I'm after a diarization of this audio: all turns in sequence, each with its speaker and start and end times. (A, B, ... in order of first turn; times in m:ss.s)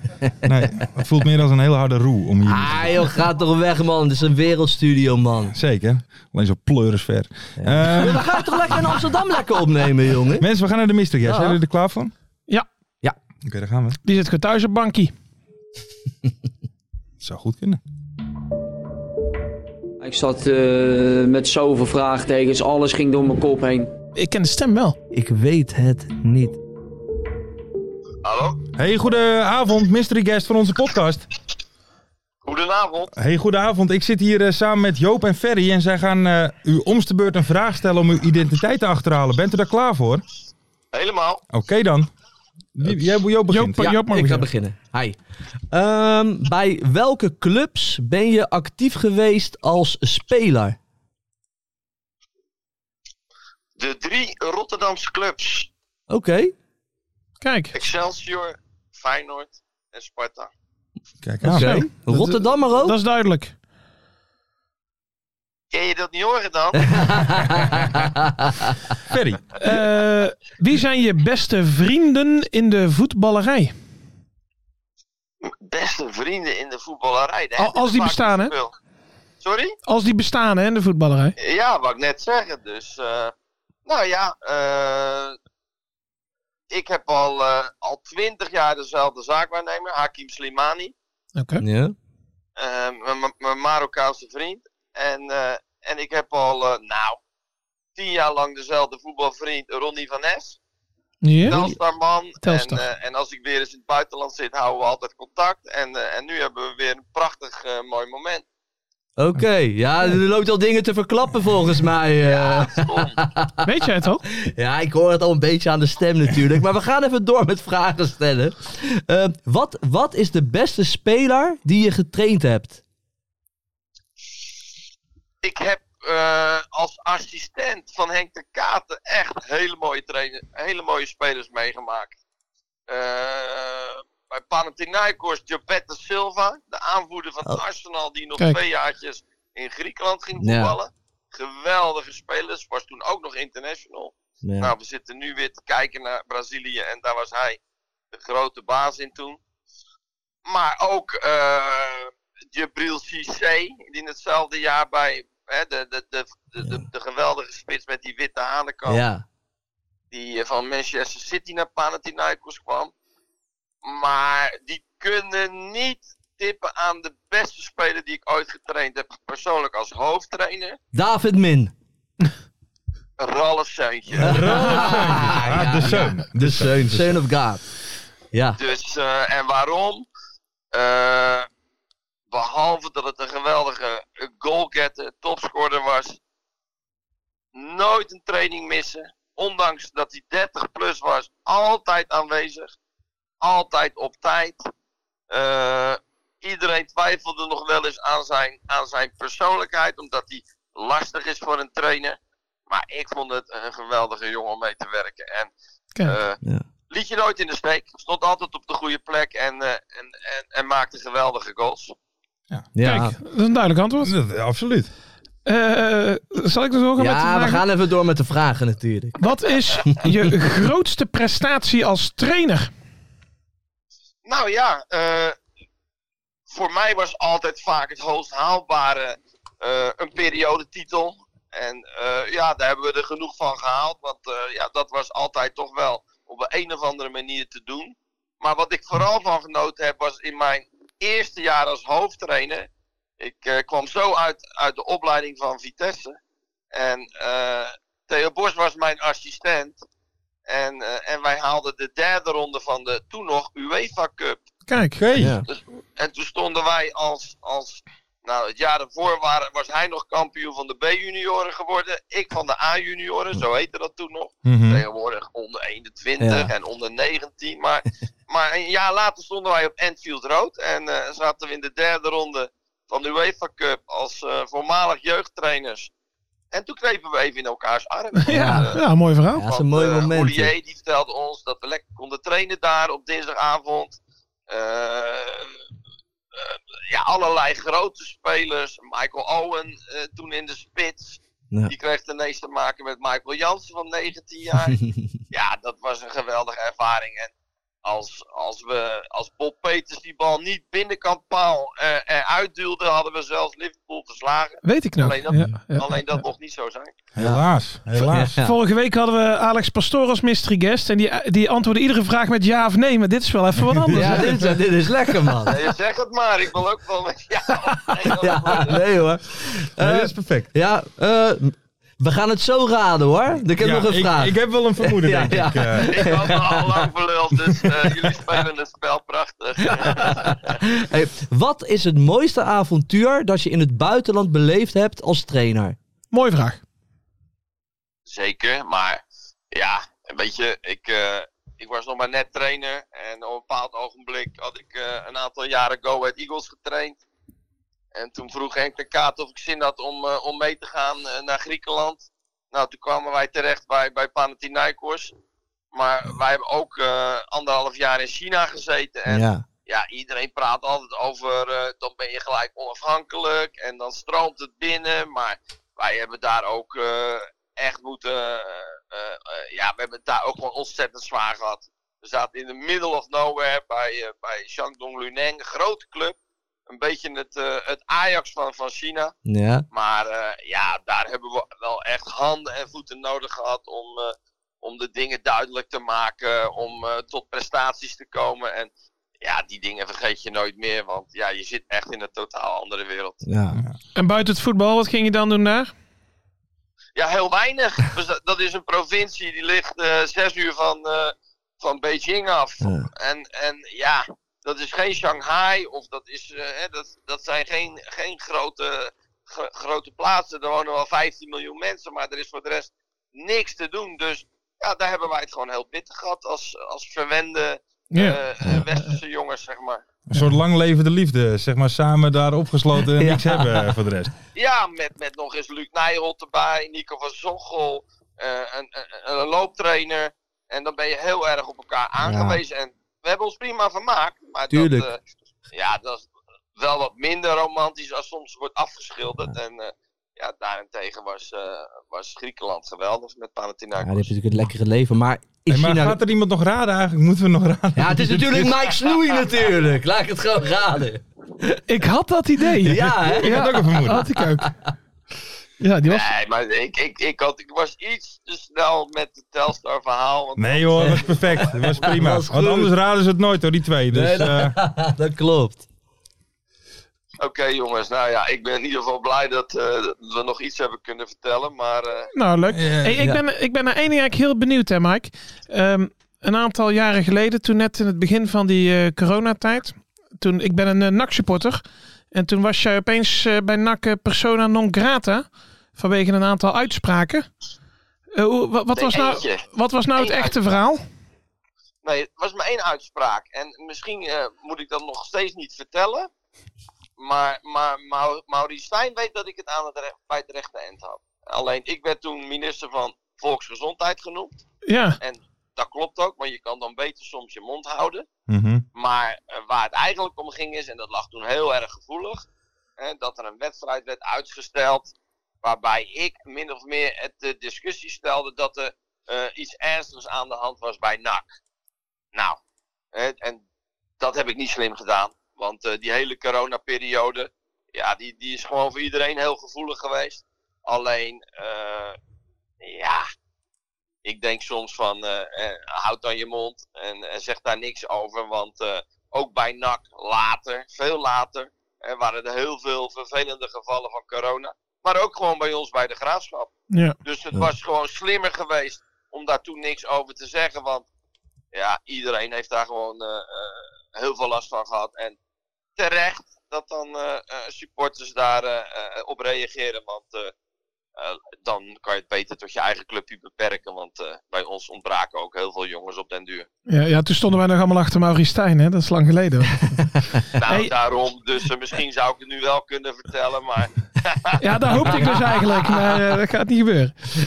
0:00.4-0:03.1 A
0:02.5-0:05.5 B
0:05.5-0:08.8 A
0:07.6-0:10.4 B
0:10.4-0:12.1 A
0:11.2-0:11.6 B
0:13.4-0:14.0 A
0:14.0-0:15.1 C
0:17.2-0:17.8 A
0:20.0-0:23.9 D
0:24.2-0:25.0 C
0:25.1-0:26.6 B
0:28.2-0:28.6 E
0:28.8-0:31.3 A
0:32.4-0:33.1 E
0:33.1-0:40.2 A
0:40.9-0:41.4 E
0:41.5-0:42.1 A
0:42.8-0:43.9 A
0:43.5-0:44.5 C
0:43.8-0:45.2 B
0:45.7-0:50.8 B
0:53.8-0:55.7 E
0:56.1-0:56.5 B
0:57.4-0:57.8 C
0:57.8-1:00.5 E
1:01.2-1:01.8 A
1:01.4-1:03.0 B
1:01.5-1:03.5 C
1:05.7-1:07.1 E
1:06.8-1:08.8 B
1:09.1-1:09.5 A
1:09.6-1:13.7 C
1:15.4-1:18.7 E
1:17.6-1:18.5 C
1:19.4-1:19.8 E
1:19.9-1:21.4 C
1:21.4-1:23.3 E
1:23.9-1:25.4 E
1:26.7-1:30.9 E
1:31.4-1:31.6 C
1:31.6-1:32.0 B
1:32.6-1:37.2 E
1:38.0-1:40.6 E
1:41.2-1:41.7 C
1:41.5-1:48.4 E
1:41.5-1:41.8 B
1:42.4-1:42.8 C
1:49.2-1:53.7 B
1:52.3-1:53.2 E
1:53.6-1:54.2 C
1:54.3-2:02.8 B
2:05.4-2:12.1 E
2:12.9-2:27.6 E
2:20.4-2:20.7 B
2:24.4-2:24.7 B
2:28.1-2:29.4 E
2:30.5-2:39.0 E
2:38.9-2:39.2 B
2:40.1-2:42.9 E
2:43.8-2:50.8 E
2:50.9-2:51.7 B
2:53.2-2:54.8 E
2:54.1-2:57.2 A
2:54.2-2:57.6 B
2:58.3-2:58.6 B
2:58.6-3:00.1 E
3:00.7-3:01.5 E
3:02.3-3:06.2 E
3:07.5-3:12.7 E
3:13.4-3:14.6 E
3:15.3-3:22.2 E
3:22.7-3:25.5 E
3:26.0-3:26.4 E
3:26.9-3:31.9 E
3:32.8-3:33.2 B
3:32.8-3:34.1 C
3:34.0-3:34.9 A
3:35.5-3:37.6 C
3:37.0-3:40.3 B
3:39.2-3:42.7 C
3:44.2-3:45.4 E
3:46.5-4:02.7 E
4:03.2-4:06.2 E
4:06.7-4:09.8 E
4:10.5-4:14.4 E
4:14.7-4:15.0 C
4:15.0-4:15.4 A
4:15.2-4:15.5 B
4:15.5-4:35.9 E
4:24.4-4:24.8 A
4:26.2-4:26.5 B
4:36.5-4:38.8 E
4:38.2-4:39.4 C
4:38.3-4:38.7 B
4:39.3-4:40.5 B
4:39.5-4:44.0 E
4:44.5-4:45.6 E
4:46.4-4:54.8 E
4:54.7-4:55.0 B
4:55.3-4:57.3 E
4:57.8-5:06.9 E
5:04.6-5:05.9 C
5:07.2-5:08.3 A
5:08.0-5:08.6 B
5:08.4-5:14.6 C
5:13.6-5:14.3 A
5:13.9-5:15.7 B
5:15.5-5:18.8 E
5:18.0-5:27.9 B
5:19.8-5:20.5 A
5:23.6-5:26.2 A
5:25.9-5:30.6 E
5:29.6-5:35.8 B
5:36.1-5:36.6 C
5:38.1-5:39.0 E
5:39.5-5:47.0 E
5:47.9-5:55.1 E
5:55.7-6:16.2 E
5:59.1-5:59.4 B
6:16.7-6:19.1 E
6:19.3-6:19.6 B
6:19.7-6:28.7 E
6:29.2-6:33.2 E
6:33.2-6:33.6 B
6:34.0-6:35.7 C
6:37.0-6:59.8 E
6:42.6-6:42.9 B
6:57.9-6:59.0 C
7:00.1-7:04.1 A
7:03.0-7:03.7 B
7:04.4-7:15.0 E
7:12.0-7:12.4 B
7:14.5-7:14.9 B
7:15.5-7:24.1 E
7:23.8-7:26.0 B
7:25.5-7:28.7 A
7:27.8-7:31.6 B
7:31.7-7:34.5 C
7:32.5-7:34.6 B
7:33.2-7:34.0 A
7:35.6-7:36.1 C
7:35.8-7:41.9 E
7:40.4-7:44.6 A
7:40.8-7:41.1 B
7:41.7-7:42.7 B
7:43.9-7:45.6 B
7:47.2-7:52.1 E
7:52.1-8:07.3 C
7:52.5-7:53.0 A
8:08.2-8:10.9 C
8:08.7-8:10.5 E
8:11.8-8:16.1 E
8:17.0-8:24.4 E
8:24.7-8:25.0 C
8:25.0-8:28.1 E
8:28.3-8:28.6 A
8:28.8-8:32.2 E
8:32.8-8:34.9 E
8:35.4-8:41.3 E
8:42.1-8:42.4 E
8:42.9-8:43.4 E
8:44.0-8:52.0 E
8:52.6-8:53.1 E
8:54.0-9:06.5 E
9:06.7-9:07.0 C
9:07.0-9:10.9 E
9:11.5-9:15.2 E
9:15.8-9:20.3 E
9:21.0-9:26.5 E
9:26.7-9:30.7 C
9:30.3-9:35.7 E
9:34.4-9:37.0 C